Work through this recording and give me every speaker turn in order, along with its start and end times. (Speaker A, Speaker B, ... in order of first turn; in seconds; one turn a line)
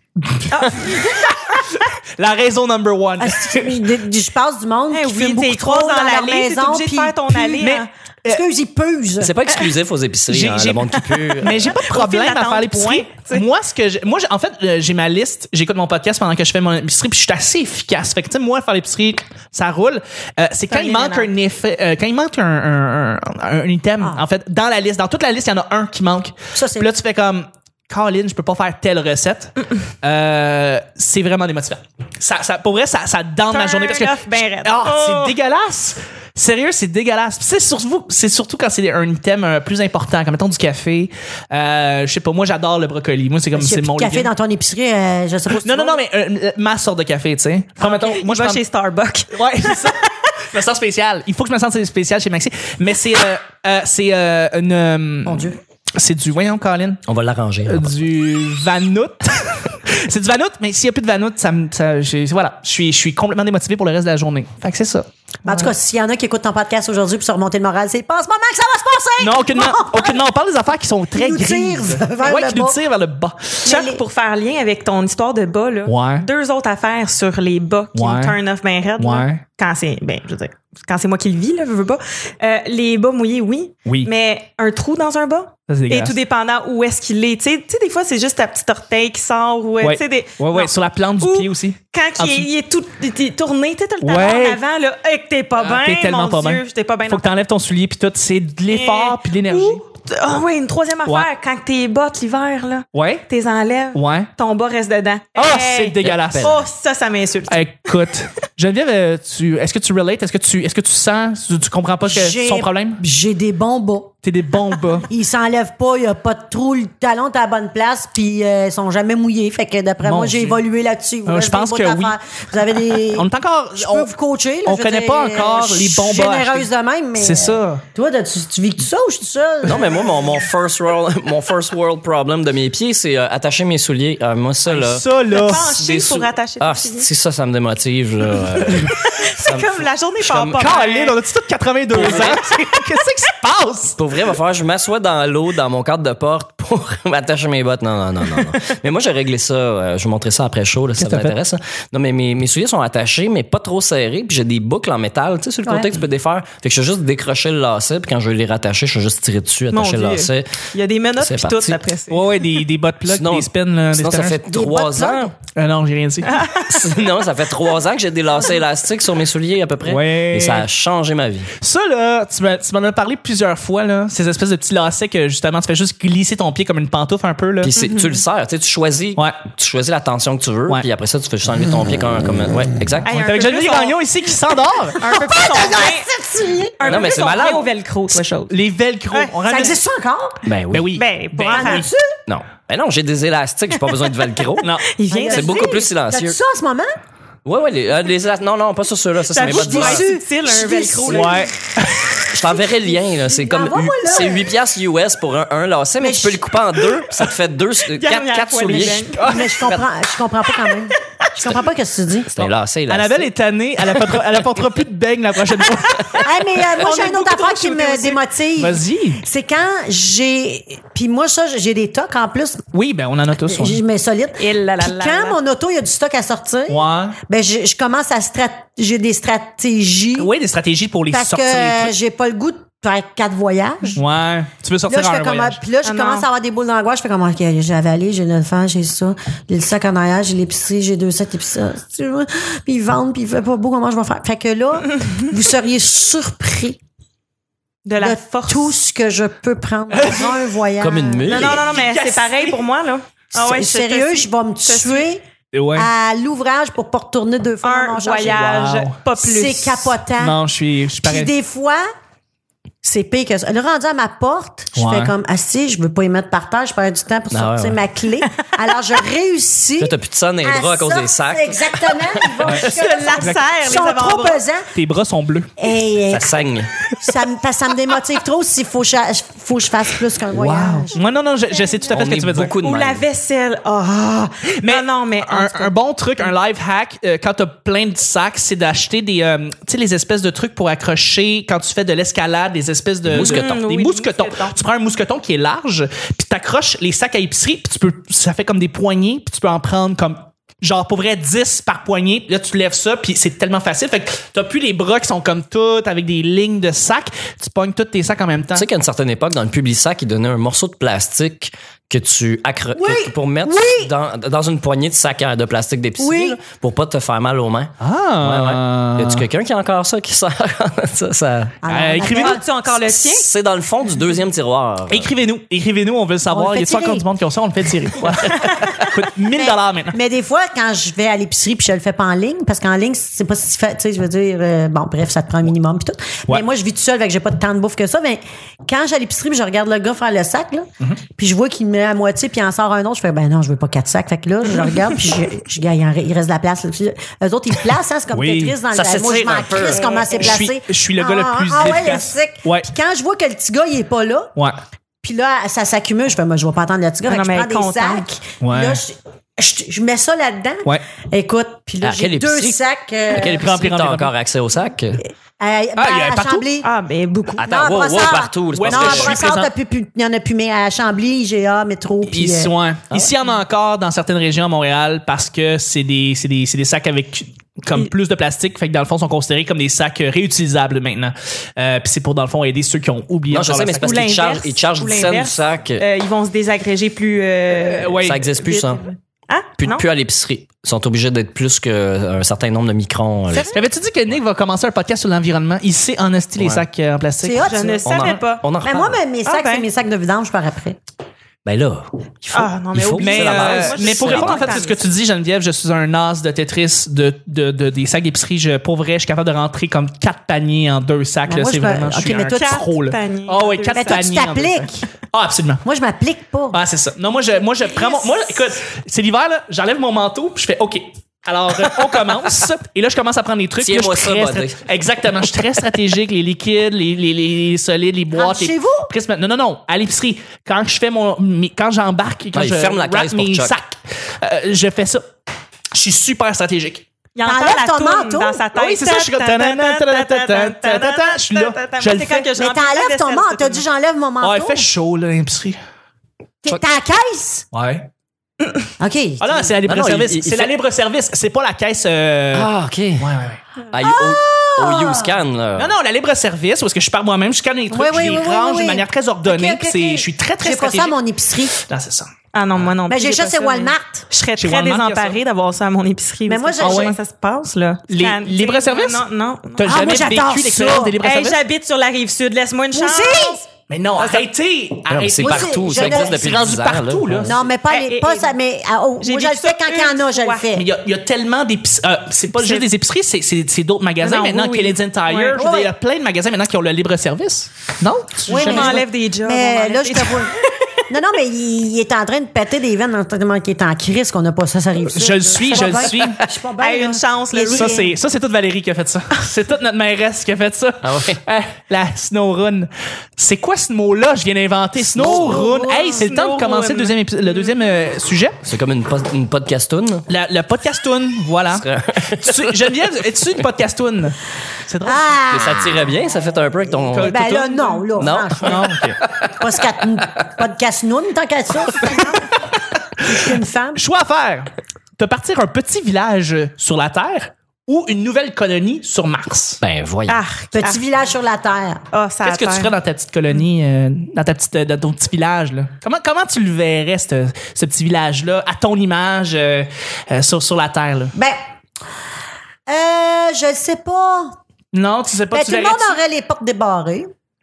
Speaker A: 0.4-3.8
Speaker B: 0.5-1.2
Speaker C: 3.2-7.7
Speaker B: 4.9-7.9
Speaker A: 7.6-8.4
Speaker C: 8.2-9.3
Speaker D: 9.2-11.6
Speaker A: 10.3-44.3
Speaker B: 11.4-13.4
Speaker B: 20.7-21.3
Speaker C: 26.5-26.9
Speaker B: 33.5-35.4
Speaker C: 43.5-46.0
Speaker A: 45.6-48.6
Speaker B: 47.8-49.9
Speaker A: 49.3-57.0
Speaker C: 55.2-55.6
Speaker D: 57.1-57.9
Speaker A: 57.6-65.7
Speaker C: 65.4-70.2
Speaker A: 69.2-73.7
Speaker C: 71.1-72.8
Speaker B: 73.6-97.3
Speaker C: 73.6-74.0
Speaker A: 75.8-76.3
Speaker A: 77.9-78.3
Speaker A: 79.0-79.4
Speaker A: 85.7-86.2
Speaker A: 89.8-92.5
Speaker A: 94.0-94.6
Speaker A: 95.6-99.8
Speaker B: 98.7-108.0
Speaker A: 102.9-103.2
Speaker A: 103.9-104.3
Speaker A: 105.3-106.6
Speaker D: 106.0-106.6
Speaker A: 107.5-113.0
Speaker C: 112.0-114.1
Speaker A: 114.2-115.1
Speaker C: 115.1-130.1
Speaker A: 120.0-120.6
Speaker A: 121.2-122.2
Speaker A: 123.1-124.1
Speaker A: 124.7-127.8
Speaker D: 129.6-140.6
Speaker A: 134.7-135.8
Speaker B: 135.3-137.1
Speaker B: 138.6-141.2
Speaker A: 140.6-144.0
Speaker D: 141.9-142.4
Speaker B: 142.0-142.4
Speaker D: 144.0-160.5
Speaker A: 151.0-151.3
Speaker C: 155.6-155.9
Speaker B: 159.7-162.4
Speaker D: 161.2-161.8
Speaker A: 162.1-164.4
Speaker D: 163.1-165.3
Speaker C: 164.5-165.3
Speaker A: 165.5-166.5
Speaker B: 166.2-166.9
Speaker D: 166.7-171.5
Speaker A: 169.8-170.7
Speaker A: 171.6-177.7
Speaker D: 177.6-183.2
Speaker B: 177.8-178.2
Speaker B: 183.0-184.0
Speaker A: 183.1-185.0
Speaker B: 185.0-186.1
Speaker C: 185.0-186.8
Speaker B: 186.8-188.5
Speaker D: 186.8-187.7
Speaker A: 186.9-187.6
Speaker A: 188.5-189.8
Speaker C: 189.4-190.5
Speaker D: 190.4-190.9
Speaker A: 190.7-191.9
Speaker B: 190.9-191.9
Speaker C: 191.5-192.2
Speaker D: 192.3-194.8
Speaker B: 194.6-195.7
Speaker A: 194.6-194.8
Speaker C: 195.1-196.9
Speaker D: 195.3-196.4
Speaker D: 197.4-200.1
Speaker B: 199.3-201.5
Speaker C: 199.4-201.5
Speaker A: 201.0-202.1
Speaker D: 202.3-209.2
Speaker C: 202.8-204.5
Speaker C: 206.0-206.4
Speaker B: 207.8-209.2
Speaker A: 209.1-209.8
Speaker C: 209.2-212.4
Speaker D: 211.4-211.6
Speaker D: 212.3-213.3
Speaker A: 212.9-219.2
Speaker C: 216.1-222.6
Speaker B: 216.8-217.8
Speaker A: 222.7-223.8
Speaker C: 223.5-230.3
Speaker B: 224.4-225.4
Speaker A: 226.7-227.2
Speaker A: 230.2-231.9
Speaker C: 231.1-234.0
Speaker A: 233.9-235.6
Speaker C: 234.9-246.8
Speaker B: 235.8-236.3
Speaker B: 247.8-248.8
Speaker C: 248.0-251.4
Speaker A: 249.9-250.5
Speaker D: 250.8-251.7
Speaker B: 251.3-255.1
Speaker A: 251.4-252.6
Speaker C: 253.3-255.2
Speaker A: 255.5-255.9
Speaker C: 255.7-258.6
Speaker B: 257.6-259.9
Speaker A: 258.2-258.9
Speaker C: 259.2-260.4
Speaker A: 260.2-261.3
Speaker C: 261.0-261.9
Speaker C: 262.8-274.7
Speaker A: 264.7-265.1
Speaker D: 267.3-267.8
Speaker D: 269.8-272.4
Speaker A: 272.4-272.7
Speaker B: 272.5-274.4
Speaker A: 274.7-275.5
Speaker C: 275.6-276.3
Speaker D: 276.1-276.7
Speaker C: 276.9-281.0
Speaker A: 280.3-282.6
Speaker D: 281.9-283.0
Speaker B: 282.6-285.7
Speaker A: 284.6-308.6
Speaker D: 293.0-293.5
Speaker B: 293.1-294.5
Speaker D: 308.5-321.6
Speaker C: 312.7-313.9
Speaker C: 316.0-316.4
Speaker A: 317.8-319.2
Speaker C: 321.6-322.4
Speaker A: 321.7-322.4
Speaker B: 322.0-323.3
Speaker D: 322.8-325.1
Speaker A: 324.9-329.9
Speaker C: 326.3-327.0
Speaker C: 329.3-354.3
Speaker A: 348.1-348.6
Speaker D: 348.7-349.9
Speaker B: 349.7-350.4
Speaker A: 350.1-352.7
Speaker C: 355.0-363.5
Speaker B: 357.0-358.1
Speaker A: 358.4-358.8
Speaker D: 361.8-365.0
Speaker A: 363.2-364.1
Speaker C: 365.4-366.7
Speaker A: 365.8-366.4
Speaker B: 366.6-367.5
Speaker D: 367.4-369.3
Speaker C: 367.4-372.5
Speaker A: 368.5-369.5
Speaker A: 372.1-384.0
Speaker D: 383.3-385.8
Speaker B: 383.8-389.9
Speaker A: 387.5-388.3
Speaker D: 388.0-388.8
Speaker D: 389.6-393.6
Speaker A: 393.5-397.7
Speaker D: 396.4-396.6
Speaker C: 397.2-398.0
Speaker B: 397.4-398.4
Speaker D: 397.8-399.0
Speaker C: 398.6-400.8
Speaker B: 399.2-399.6
Speaker D: 401.4-404.6
Speaker B: 402.3-404.9
Speaker A: 403.0-415.6
Speaker C: 411.3-412.6
Speaker B: 412.3-414.1
Speaker C: 413.7-414.9
Speaker C: 415.6-416.6
Speaker A: 416.5-435.1
Speaker C: 417.8-418.0
Speaker D: 423.6-424.6
Speaker C: 428.1-428.9
Speaker D: 432.3-433.6
Speaker A: 435.7-436.8
Speaker B: 437.1-443.6
Speaker C: 437.2-438.4
Speaker A: 438.5-442.3
Speaker C: 442.4-444.7
Speaker A: 444.2-445.6
Speaker C: 446.4-447.4
Speaker A: 447.5-447.9
Speaker C: 448.8-449.6
Speaker A: 449.2-453.4
Speaker D: 449.6-450.5
Speaker D: 452.3-453.1
Speaker D: 453.7-455.7
Speaker C: 453.8-455.1
Speaker A: 455.6-460.9
Speaker C: 457.7-461.6
Speaker A: 461.7-462.1
Speaker B: 462.3-470.0
Speaker C: 462.9-464.1
Speaker A: 464.4-465.2
Speaker C: 466.3-466.9
Speaker A: 466.6-467.0
Speaker A: 467.9-469.0
Speaker A: 469.6-471.4
Speaker C: 469.6-470.9
Speaker B: 471.0-473.4
Speaker C: 472.7-473.4
Speaker A: 473.7-477.4
Speaker B: 474.0-474.2
Speaker D: 474.9-477.4
Speaker C: 475.2-476.3
Speaker C: 477.2-480.6
Speaker B: 477.7-478.3
Speaker B: 479.0-480.5
Speaker A: 480.5-488.8
Speaker B: 482.3-482.7
Speaker B: 484.0-485.5
Speaker C: 485.4-485.7
Speaker C: 488.3-497.9
Speaker B: 488.3-490.7
Speaker A: 494.9-496.2
Speaker B: 496.6-497.9
Speaker A: 497.4-508.4
Speaker D: 500.8-501.2
Speaker D: 504.9-505.4
Speaker C: 504.9-506.1
Speaker B: 505.9-507.5
Speaker D: 508.4-510.1
Speaker A: 510.1-515.1
Speaker D: 511.5-512.7
Speaker C: 514.8-515.9
Speaker D: 515.3-517.3
Speaker A: 516.9-519.0
Speaker C: 517.0-518.7
Speaker D: 518.0-519.3
Speaker C: 519.4-522.4
Speaker C: 523.0-523.8
Speaker A: 523.0-529.6
Speaker D: 529.6-530.2
Speaker B: 530.1-530.8
Speaker C: 530.5-531.8
Speaker B: 531.9-532.7
Speaker A: 532.2-541.1
Speaker C: 542.7-544.4
Speaker A: 544.7-546.0
Speaker C: 545.3-547.1